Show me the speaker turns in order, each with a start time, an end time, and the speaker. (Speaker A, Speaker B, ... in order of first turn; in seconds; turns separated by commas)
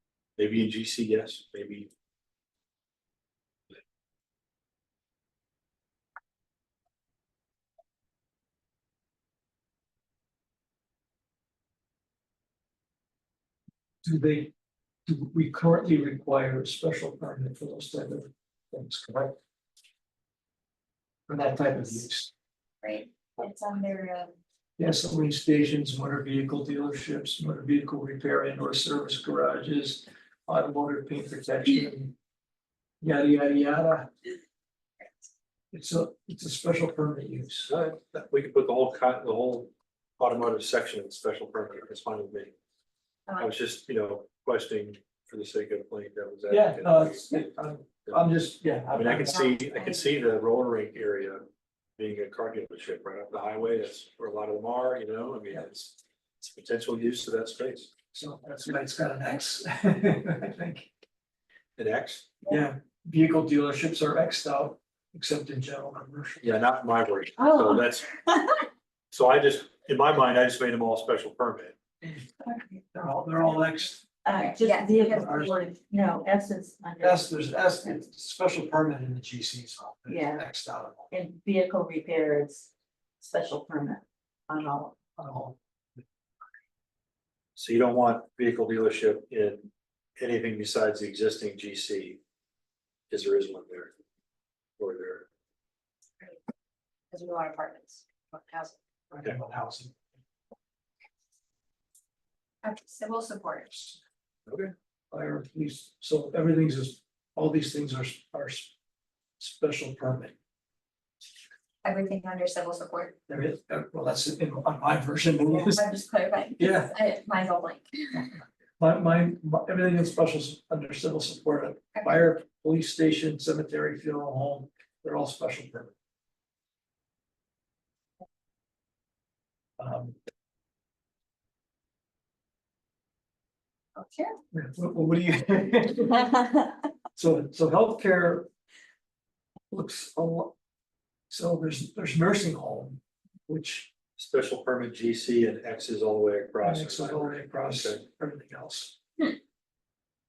Speaker A: 0.4-1.9, Speaker B: 14.0-14.5, Speaker B: 15.1-19.4, Speaker B: 21.3-22.3, Speaker C: 22.8-24.3, Speaker B: 24.8-32.1, Speaker B: 33.0-34.1, Speaker B: 35.7-37.7, Speaker A: 37.7-42.5, Speaker A: 43.4-47.4, Speaker B: 46.5-49.5, Speaker A: 48.9-51.5, Speaker A: 52.0-57.9, Speaker B: 58.1-60.9, Speaker A: 61.8-62.3, Speaker B: 62.5-66.5, Speaker A: 66.4-68.1, Speaker A: 69.1-71.8, Speaker D: 72.5-72.8, Speaker B: 72.9-74.0, Speaker D: 74.2-77.3, Speaker C: 74.4-75.5, Speaker B: 75.1-75.6, Speaker B: 77.0-81.1, Speaker D: 80.1-80.5, Speaker D: 81.1-85.0, Speaker B: 85.2-86.0, Speaker A: 87.6-92.2, Speaker A: 93.1-93.9, Speaker A: 94.8-95.3, Speaker C: 97.1-98.7, Speaker D: 98.2-98.6, Speaker B: 99.1-100.0, Speaker C: 102.6-104.0, Speaker A: 104.5-104.7, Speaker B: 105.1-108.7, Speaker B: 109.4-110.4, Speaker C: 111.8-113.2, Speaker B: 113.3-115.8, Speaker C: 115.5-118.3, Speaker B: 116.6-116.9, Speaker B: 118.8-125.9, Speaker C: 122.0-122.2, Speaker B: 129.8-130.2, Speaker C: 134.0-134.3, Speaker B: 134.5-136.3, Speaker B: 137.2-138.5, Speaker B: 139.7-140.5, Speaker B: 141.3-143.9, Speaker A: 144.2-148.0, Speaker B: 146.6-149.0